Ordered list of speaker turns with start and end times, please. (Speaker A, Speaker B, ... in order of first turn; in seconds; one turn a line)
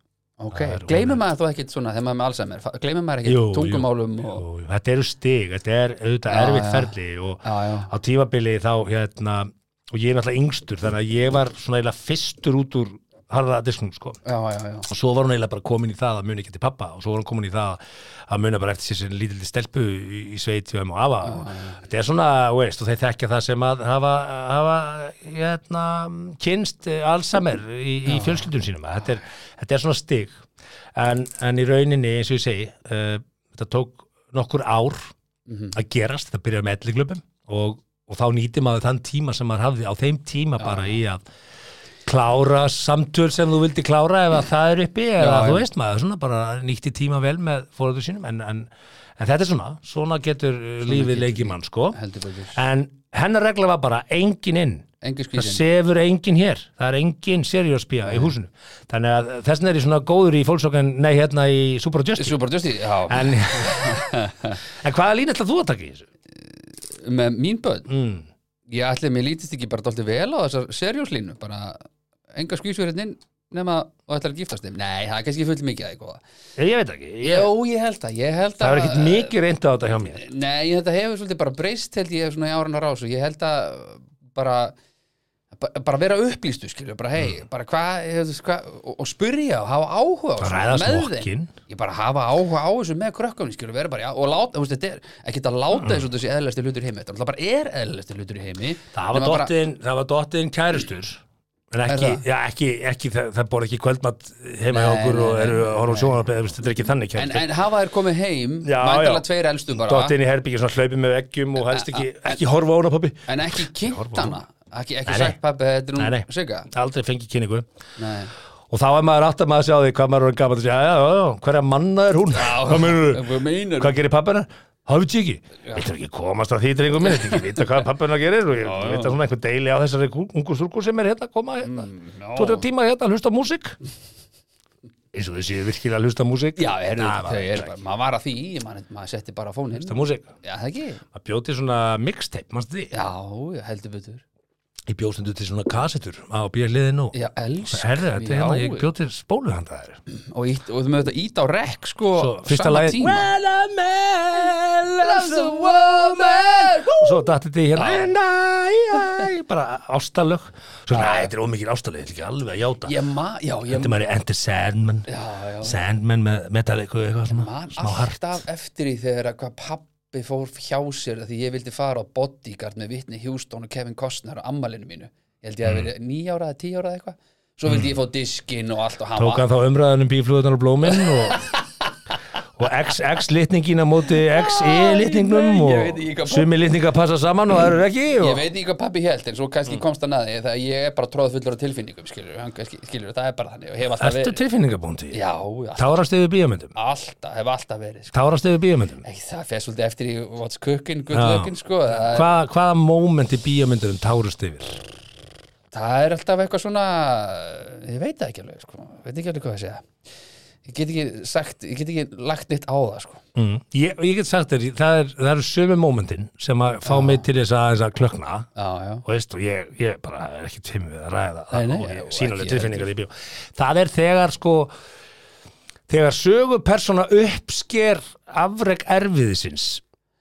Speaker A: 0.4-4.4
Speaker B: 0.5-1.2
Speaker B: 3.2-14.2
Speaker A: 6.3-7.9
Speaker A: 14.2-14.9
Speaker B: 14.9-30.4
Speaker A: 21.2-21.8
Speaker A: 28.1-28.5
Speaker B: 30.9-35.1
Speaker A: 35.5-35.7
Speaker B: 35.7-41.2
Speaker A: 40.6-41.0
Speaker B: 42.0-52.0
Speaker A: 45.2-45.6
Speaker A: 50.8-52.6
Speaker B: 52.5-62.4
Speaker A: 55.0-55.6
Speaker A: 58.0-58.3
Speaker A: 62.2-64.6
Speaker B: 63.1-64.1
Speaker B: 64.7-66.0
Speaker A: 66.4-67.9
Speaker B: 67.9-68.3
Speaker A: 68.7-76.2
Speaker B: 76.6-77.5
Speaker A: 77.2-79.3
Speaker B: 78.6-80.2
Speaker A: 80.1-84.7
Speaker A: 85.5-99.5
Speaker B: 90.4-91.5
Speaker B: 95.7-96.0
Speaker B: 98.9-107.5
Speaker A: 101.9-102.2
Speaker A: 104.7-106.2
Speaker A: 107.2-110.1
Speaker B: 108.6-109.2
Speaker B: 109.8-114.4
Speaker A: 111.6-112.4
Speaker A: 113.3-116.7
Speaker B: 115.0-115.3
Speaker B: 116.0-117.7
Speaker A: 118.0-118.3
Speaker B: 118.7-133.8
Speaker A: 122.3-124.0
Speaker A: 127.0-127.6
Speaker A: 128.6-129.2
Speaker A: 131.6-132.7
Speaker B: 135.1-137.7
Speaker A: 136.6-141.0
Speaker B: 139.8-140.2
Speaker B: 141.1-142.9
Speaker A: 142.9-144.2
Speaker B: 144.9-147.1
Speaker A: 147.1-148.9
Speaker B: 147.7-150.0
Speaker A: 150.1-153.3
Speaker B: 152.2-162.9
Speaker A: 155.0-158.1
Speaker A: 160.9-161.3
Speaker A: 162.8-163.9
Speaker B: 163.7-165.1
Speaker A: 165.1-165.8
Speaker B: 165.6-168.4
Speaker A: 167.3-179.4
Speaker B: 179.2-181.4
Speaker A: 180.9-181.6
Speaker B: 182.6-188.4
Speaker A: 184.1-186.5
Speaker A: 188.2-194.4
Speaker B: 194.0-195.2
Speaker A: 195.1-196.0
Speaker B: 195.8-196.7
Speaker A: 196.7-198.1
Speaker B: 198.1-199.0
Speaker A: 199.0-202.3
Speaker B: 201.1-204.8
Speaker A: 205.7-209.9
Speaker A: 210.6-213.2
Speaker B: 213.3-218.5
Speaker A: 216.8-217.2
Speaker A: 218.6-219.0
Speaker B: 219.0-224.7
Speaker A: 221.5-222.9
Speaker B: 225.9-229.8